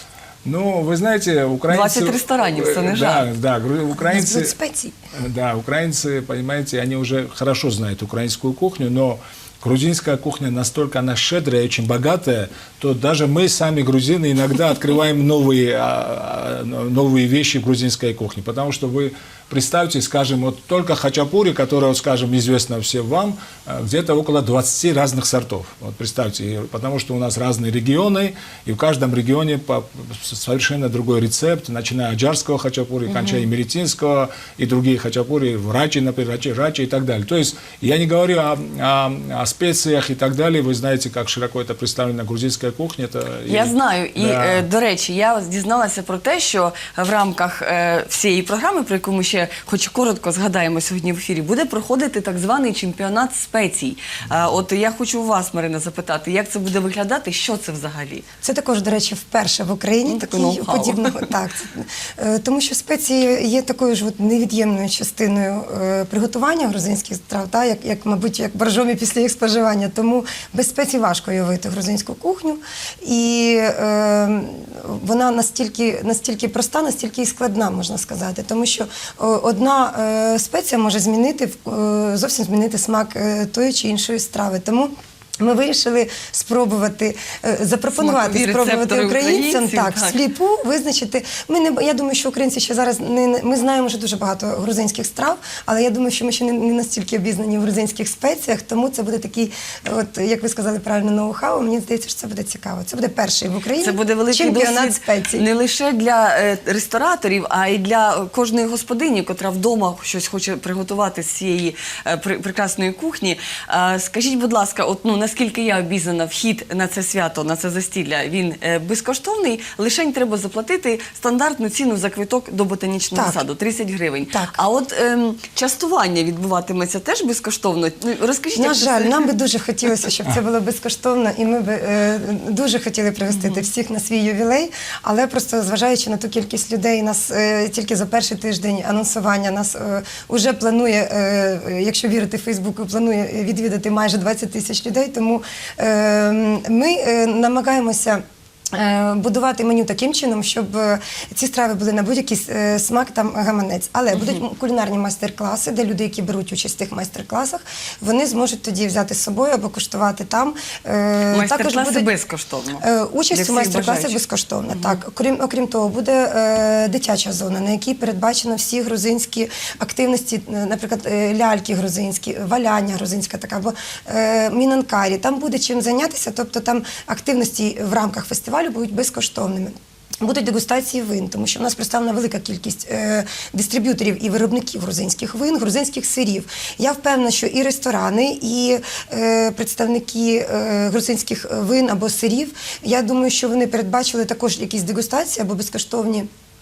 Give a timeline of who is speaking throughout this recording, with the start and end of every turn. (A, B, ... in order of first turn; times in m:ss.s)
0:00.4-0:04.5 A
0:01.7-0:03.3 B
0:04.0-0:04.9 C
0:05.2-0:44.6 A
0:33.1-0:33.4 B
0:43.5-0:58.2 B
0:58.4-1:45.4 C
1:00.1-1:01.3 B
1:27.9-1:30.2 B
1:43.8-2:09.3 B
2:03.2-2:03.4 C
2:04.3-2:04.6 C
2:08.6-2:28.2 C
2:13.3-2:13.6 B
2:28.7-2:42.1 C
2:41.3-2:44.2 B
2:42.8-3:16.3 C
2:44.7-2:45.0 B